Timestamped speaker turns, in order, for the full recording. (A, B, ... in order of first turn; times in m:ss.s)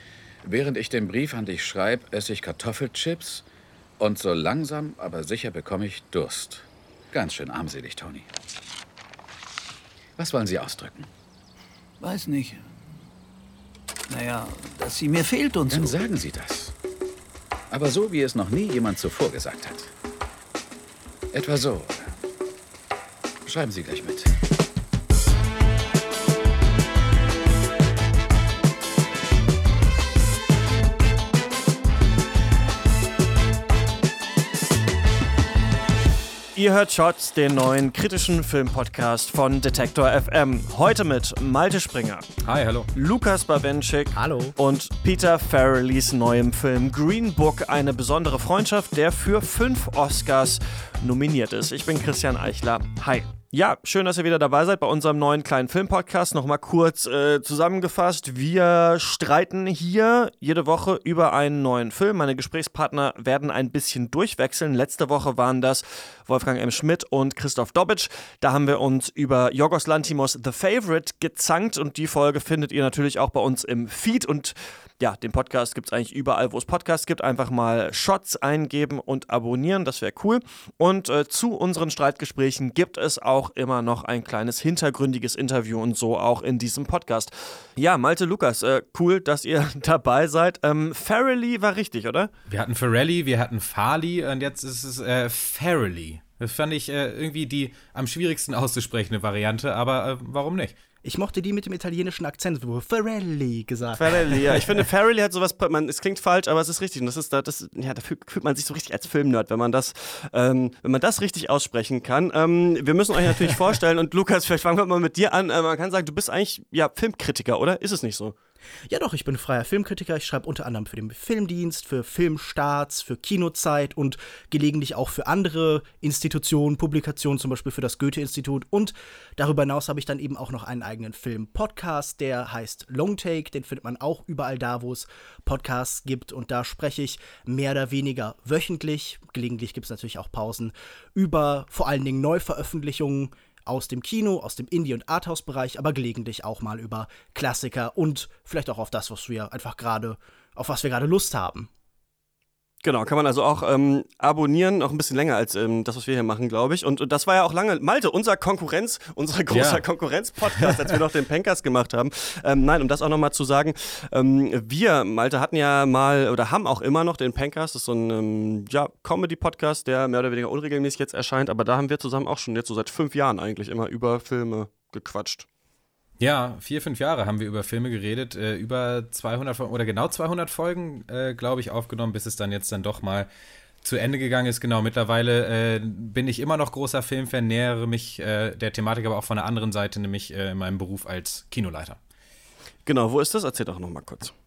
0:00.4-0:03.4 A
0:04.0-0:08.3 A
0:10.2-0:11.1 A
0:12.0-0:12.6 B
0:14.1-0:16.0 B
0:15.7-0:16.7 A
0:17.7-0:19.9 A
0:21.3-0:22.1 A
0:23.5-0:24.3 A
0:36.6-0:42.2 C
0:42.4-0:42.9 D
0:43.0-1:32.3 C
0:44.2-0:44.6 E
1:32.5-1:40.8 D
1:41.0-1:44.6 E
1:44.0-1:58.4 C
1:58.9-2:31.7 E
2:32.8-2:55.5 C
2:39.5-2:39.8 D
2:56.2-3:03.3 D
3:03.8-3:12.0 D
3:12.9-3:14.3 C